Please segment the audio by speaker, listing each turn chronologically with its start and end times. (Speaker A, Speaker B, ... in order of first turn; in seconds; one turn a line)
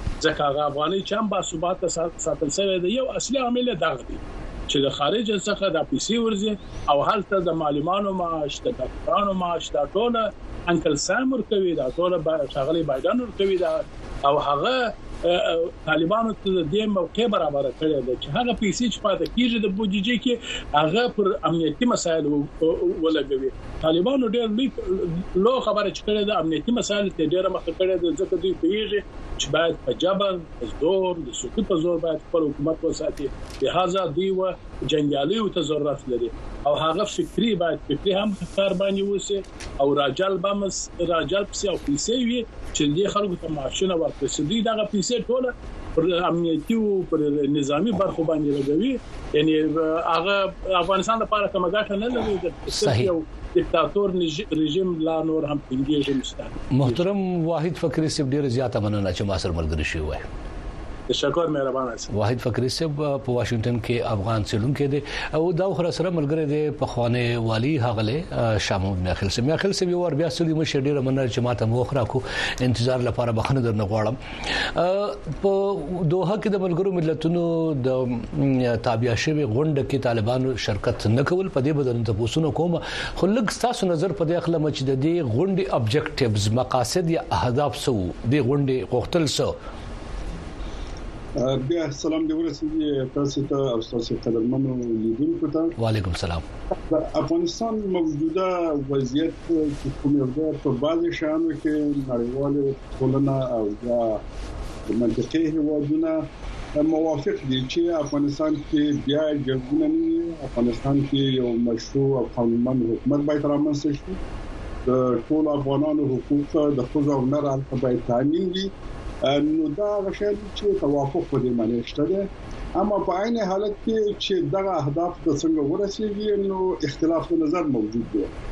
Speaker A: 0.2-57.0
Speaker B: 52.7-53.1
Speaker B: 56.7-60.3
Speaker A: 61.1-62.1
Speaker B: 62.1-89.5
Speaker C: 91.4-95.7
Speaker B: 95.8-96.4
Speaker C: 96.7-104.2
Speaker C: 104.9-114.2
Speaker C: 114.9-118.7
Speaker C: 119.3-128.3